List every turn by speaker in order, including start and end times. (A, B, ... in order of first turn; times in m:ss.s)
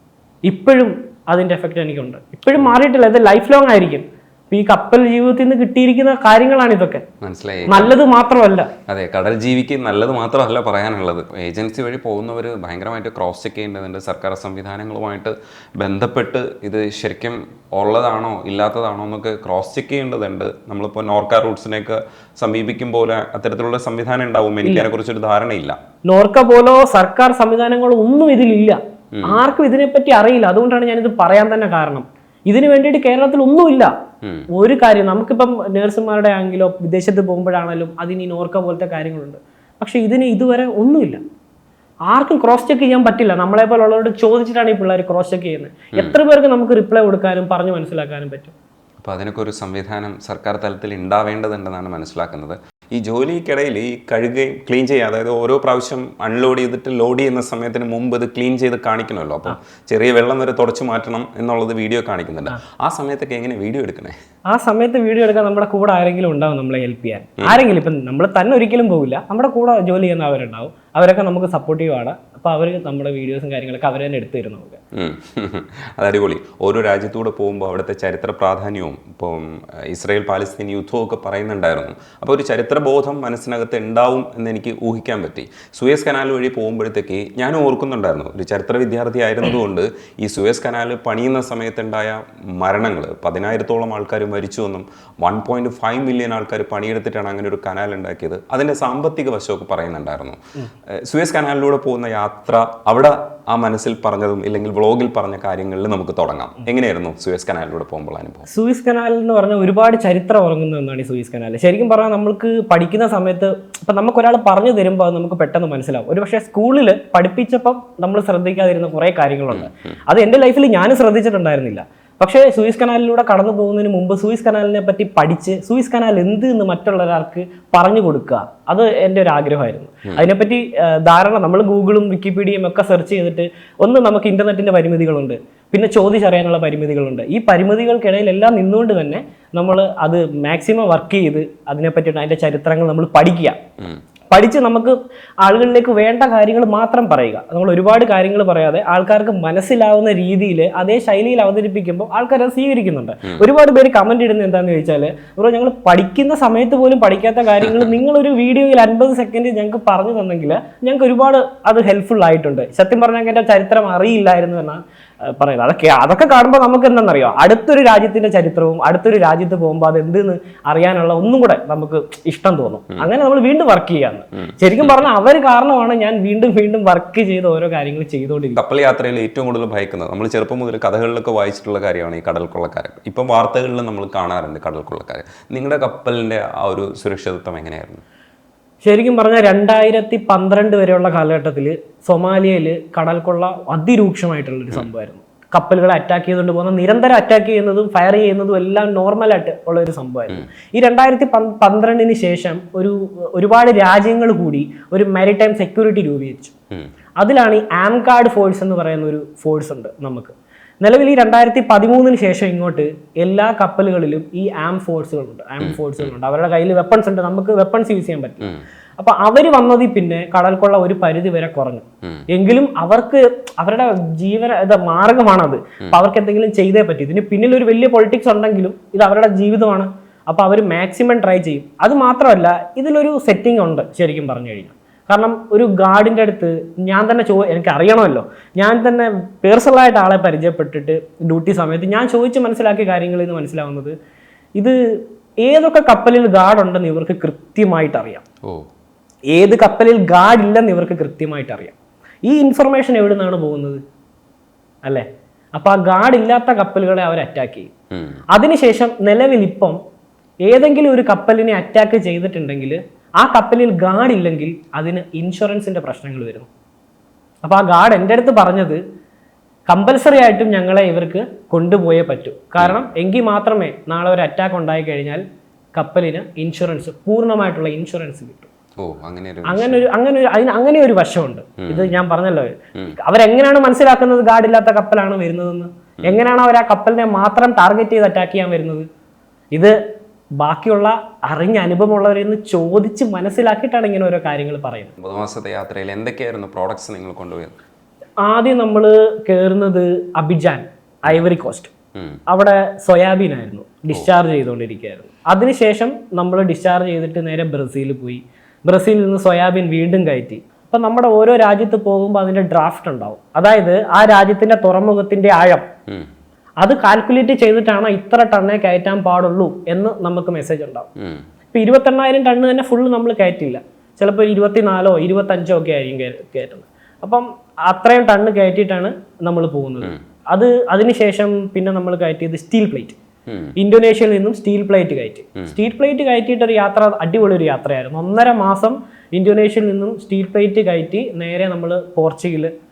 0:00.4-0:07.0 A
0:07.2-0:07.9 B
0:07.7-0:08.7 A
0:08.9-0:25.8 B
0:24.6-0:24.9 A
0:26.1-0:33.9 A
0:29.1-0:29.4 B
0:34.5-0:41.2 A
0:42.1-0:48.5 A
0:49.0-1:04.1 B
1:04.5-1:14.8 A
1:14.9-1:40.4 B
1:41.0-1:48.4 B
1:48.5-2:23.6 A
1:59.5-2:00.0 B
2:24.3-2:58.6 A
2:37.6-2:37.9 B
2:54.4-2:55.0 B
2:58.6-3:08.0 B
3:08.8-3:26.5 A
3:27.2-4:03.9 A
3:35.6-3:36.1 B
4:04.6-4:08.2 A
4:09.3-4:13.8 A
4:14.8-4:17.7 A
4:17.9-4:18.2 B
4:18.3-4:19.8 A
4:20.4-4:26.5 A
4:27.4-4:28.8 A
4:29.7-4:35.2 A
4:35.7-4:38.5 A
4:38.8-4:39.9 B
4:39.4-4:48.8 A
4:41.6-4:42.0 B
4:50.4-4:54.9 A
4:55.0-4:57.5 B
4:58.2-5:01.7 A
5:02.3-5:15.7 A
5:16.6-5:20.9 A
5:21.0-5:21.2 B
5:21.5-5:33.0 A
5:33.3-5:33.5 B
5:33.6-5:42.5 A